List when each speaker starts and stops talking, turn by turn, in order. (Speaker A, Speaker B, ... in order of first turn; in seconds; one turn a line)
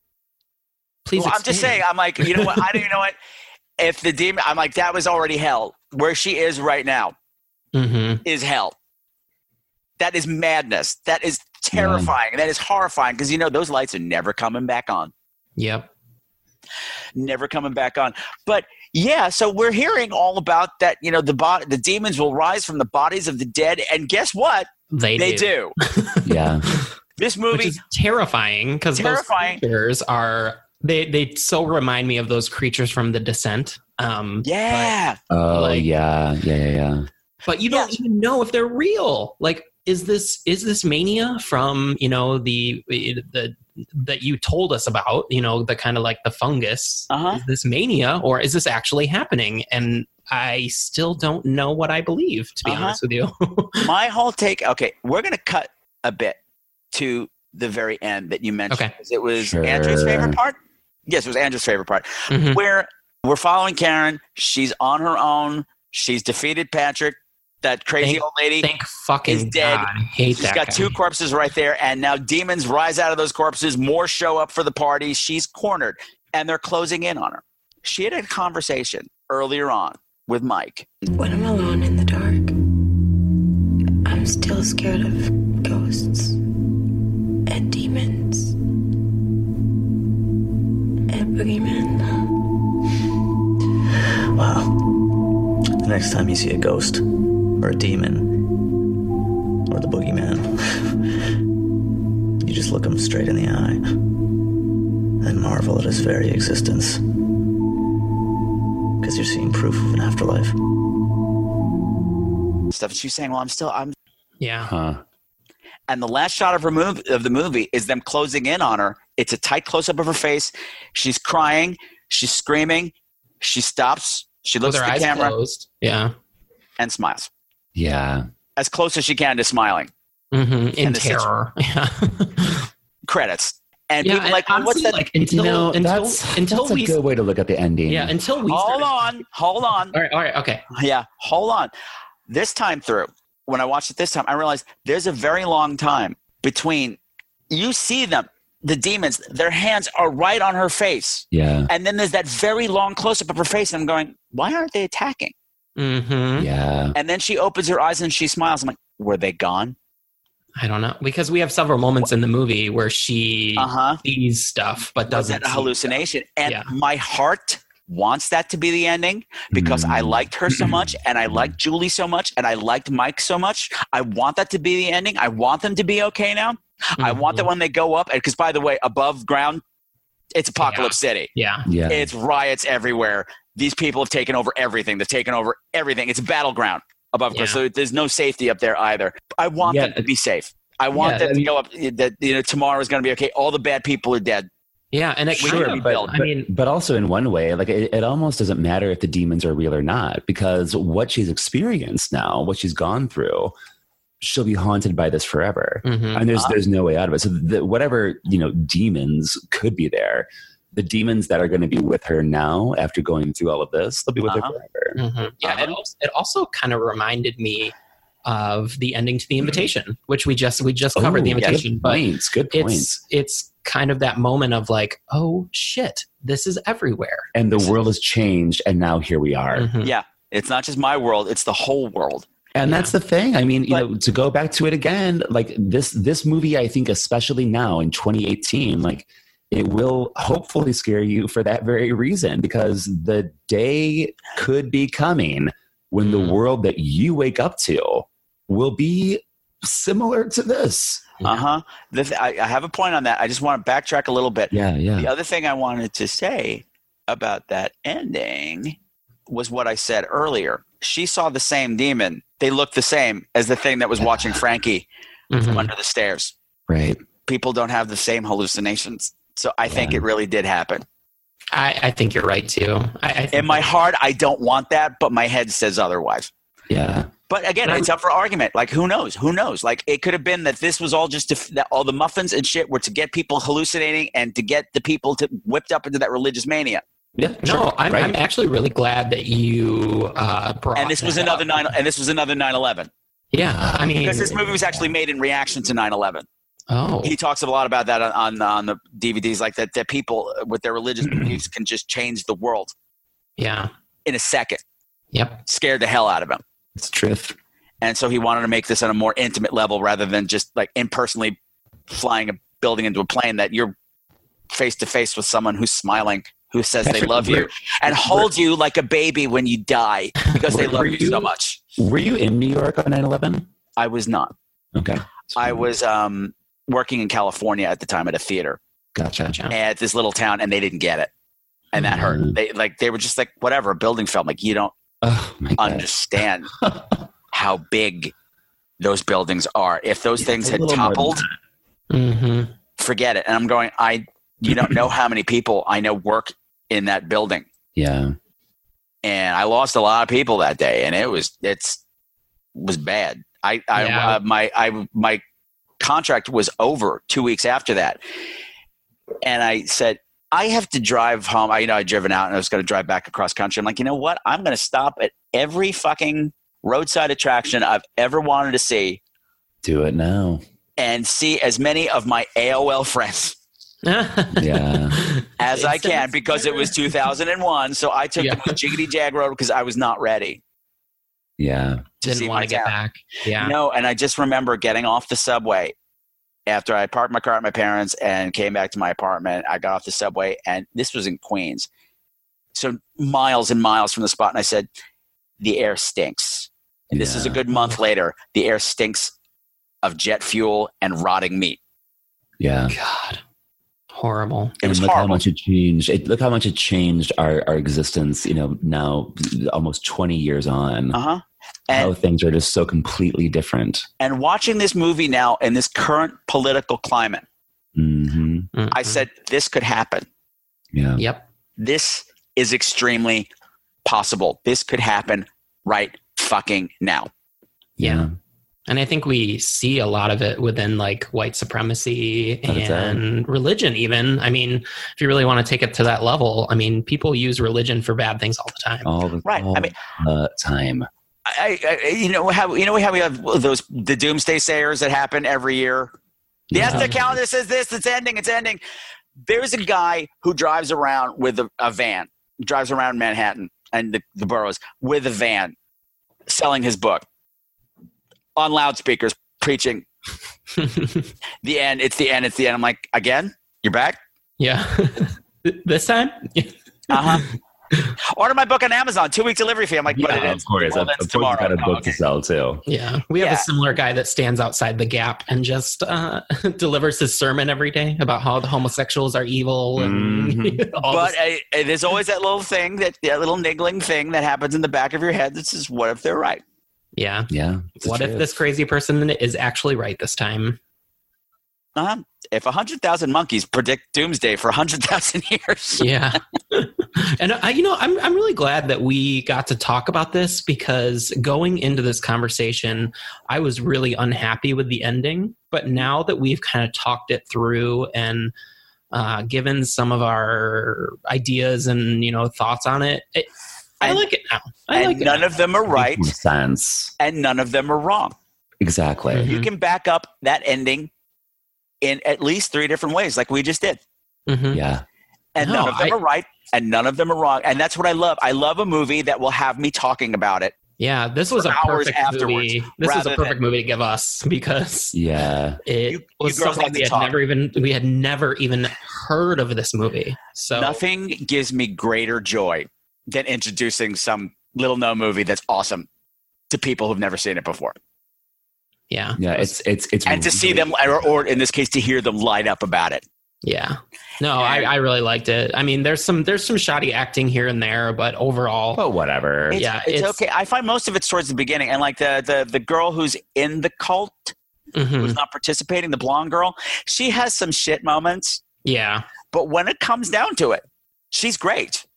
Speaker A: 1.1-2.8
Speaker B: 1.2-3.1
Speaker B: 3.8-7.1
Speaker A: 7.7-8.2
Speaker B: 8.2-8.7
Speaker B: 10.0-15.1
Speaker C: 11.7-12.1
Speaker A: 15.6-15.9
Speaker B: 17.2-25.8
Speaker A: 24.9-26.9
Speaker C: 26.2-26.7
Speaker B: 27.2-27.8
Speaker A: 27.5-34.9
Speaker B: 29.0-29.6
Speaker B: 34.5-35.2
Speaker C: 35.3-37.1
Speaker A: 35.5-35.9
Speaker A: 37.5-53.9
Speaker B: 37.7-37.9
Speaker B: 47.1-47.4
Speaker B: 52.6-53.0
Speaker B: 53.8-56.4
Speaker B: 56.9-68.7
Speaker C: 59.4-60.4
Speaker A: 62.3-62.6
Speaker A: 68.0-71.0
Speaker B: 69.3-80.9
Speaker D: 81.2-82.5
Speaker D: 84.1-86.4
Speaker D: 87.5-88.5
Speaker D: 91.1-92.0
Speaker E: 94.3-95.0
Speaker E: 95.8-97.1
Speaker E: 97.6-98.5
Speaker E: 99.7-100.8
Speaker E: 102.4-104.0
Speaker E: 105.2-107.0
Speaker E: 109.0-110.5
Speaker B: 112.7-114.0
Speaker A: 114.4-114.7
Speaker C: 114.6-115.0
Speaker B: 115.9-125.3
Speaker A: 124.6-126.1
Speaker B: 126.8-127.3
Speaker C: 127.8-128.3
Speaker B: 128.6-129.9
Speaker A: 130.3-132.7
Speaker B: 130.8-131.3
Speaker B: 133.1-135.0
Speaker A: 134.0-137.0
Speaker C: 135.2-138.2
Speaker A: 137.9-139.1
Speaker B: 138.5-139.9
Speaker A: 139.9-140.6
Speaker B: 140.8-141.7
Speaker B: 142.3-147.0
Speaker B: 147.5-155.3
Speaker C: 151.3-151.7
Speaker A: 155.8-156.5
Speaker C: 156.4-157.0
Speaker B: 157.0-159.8
Speaker A: 160.6-165.8
Speaker B: 163.6-164.0
Speaker B: 165.1-179.6
Speaker C: 169.5-171.5
Speaker A: 177.0-177.5
Speaker B: 180.3-181.3
Speaker A: 180.6-181.7
Speaker C: 181.7-182.1
Speaker B: 181.9-194.5
Speaker A: 187.3-187.6
Speaker C: 189.7-190.0
Speaker A: 190.9-191.5
Speaker A: 194.9-196.5
Speaker B: 195.4-196.1
Speaker C: 195.4-203.5
Speaker C: 204.2-215.7
Speaker A: 205.8-206.3
Speaker B: 214.3-214.6
Speaker A: 215.0-217.7
Speaker A: 218.2-227.7
Speaker C: 220.9-223.0
Speaker C: 227.3-229.7
Speaker A: 229.6-229.9
Speaker B: 229.8-232.3
Speaker C: 232.6-251.1
Speaker A: 232.7-232.9
Speaker A: 246.0-246.4
Speaker B: 251.2-258.8
Speaker C: 254.5-255.1
Speaker B: 259.3-264.9
Speaker C: 264.1-264.4
Speaker A: 265.3-265.7
Speaker B: 265.5-266.3
Speaker C: 266.7-267.0
Speaker B: 267.3-270.8
Speaker C: 269.7-270.0
Speaker A: 271.5-273.7
Speaker B: 273.3-276.3
Speaker C: 276.7-277.1
Speaker B: 277.3-286.8
Speaker C: 287.2-288.2
Speaker A: 287.4-291.6
Speaker B: 290.8-292.9
Speaker A: 293.3-294.3
Speaker C: 293.4-294.9
Speaker B: 294.0-296.3
Speaker A: 296.7-297.1
Speaker B: 297.0-302.7
Speaker C: 301.0-301.4
Speaker A: 303.4-303.7
Speaker B: 304.1-304.6
Speaker A: 305.1-305.4
Speaker B: 305.5-306.4
Speaker C: 306.8-307.4
Speaker B: 307.8-311.4
Speaker B: 311.9-313.8
Speaker B: 314.5-321.6
Speaker C: 316.8-318.3
Speaker C: 320.5-321.3
Speaker C: 321.8-323.5
Speaker B: 323.8-324.3
Speaker C: 324.8-325.7
Speaker B: 325.4-328.6
Speaker C: 328.9-329.4
Speaker B: 329.5-331.1
Speaker B: 331.7-334.7
Speaker C: 331.8-332.4
Speaker C: 335.0-337.0
Speaker B: 335.6-336.5
Speaker B: 337.3-338.1
Speaker B: 338.8-341.2
Speaker C: 340.2-341.3
Speaker A: 341.9-342.5
Speaker B: 342.8-347.5
Speaker C: 344.5-344.8
Speaker C: 347.8-348.1
Speaker B: 349.0-351.8
Speaker B: 352.6-355.2
Speaker A: 353.8-354.2
Speaker B: 355.8-358.0
Speaker B: 359.2-369.0
Speaker C: 369.6-370.4
Speaker B: 370.8-373.4
Speaker A: 373.9-376.7
Speaker C: 374.3-375.0
Speaker B: 375.4-380.4
Speaker A: 378.2-378.6
Speaker C: 381.4-381.9
Speaker B: 382.0-382.7
Speaker A: 382.0-383.5
Speaker B: 383.4-385.8
Speaker B: 386.5-391.7
Speaker B: 392.6-394.7
Speaker B: 395.4-399.1
Speaker C: 396.9-397.4
Speaker B: 399.8-401.6
Speaker C: 402.4-402.7
Speaker A: 402.7-403.2
Speaker A: 403.9-404.6
Speaker B: 404.6-405.2
Speaker C: 404.6-411.0
Speaker B: 410.9-411.9
Speaker C: 411.7-413.9
Speaker B: 414.0-417.2
Speaker C: 417.8-418.5
Speaker A: 418.6-419.0
Speaker B: 418.7-420.1
Speaker C: 420.7-421.0
Speaker A: 421.0-421.3
Speaker B: 421.6-423.3
Speaker B: 423.9-427.1
Speaker C: 427.8-428.1
Speaker A: 427.8-428.1
Speaker A: 428.7-438.9
Speaker C: 432.5-433.0
Speaker C: 438.9-440.9
Speaker B: 439.2-439.8
Speaker B: 441.3-445.9
Speaker C: 446.5-447.2
Speaker B: 446.6-448.6
Speaker A: 446.6-446.9
Speaker B: 449.3-455.6
Speaker B: 456.3-457.0
Speaker B: 458.4-459.9
Speaker A: 460.6-461.1
Speaker B: 461.4-464.0
Speaker A: 464.4-467.9
Speaker B: 466.9-467.3
Speaker B: 468.1-472.0
Speaker C: 469.9-472.6
Speaker A: 472.7-481.2
Speaker B: 473.2-473.5
Speaker C: 479.8-480.7
Speaker B: 480.9-486.4
Speaker A: 487.0-490.6
Speaker C: 487.3-488.4
Speaker B: 491.8-495.9
Speaker A: 495.8-508.3
Speaker A: 508.9-513.3
Speaker A: 513.8-515.3
Speaker B: 514.7-516.1
Speaker C: 515.7-516.9
Speaker B: 517.0-518.2
Speaker C: 518.6-519.3
Speaker A: 519.1-519.5
Speaker B: 519.2-520.9
Speaker B: 521.8-523.8
Speaker A: 524.3-524.6
Speaker C: 524.5-524.9
Speaker B: 525.4-530.5
Speaker A: 525.4-526.0
Speaker A: 530.8-535.0
Speaker B: 531.4-533.4
Speaker C: 534.9-535.6
Speaker A: 535.6-540.8
Speaker B: 535.9-537.1
Speaker B: 540.5-545.9
Speaker B: 546.5-547.8
Speaker A: 548.9-549.5
Speaker C: 549.2-550.8
Speaker B: 550.1-553.0
Speaker A: 553.4-558.8
Speaker B: 554.4-554.7
Speaker C: 558.8-559.6
Speaker B: 559.5-564.3
Speaker A: 559.5-560.2
Speaker A: 564.8-565.2
Speaker B: 565.0-568.4
Speaker A: 568.6-569.1
Speaker B: 569.3-571.9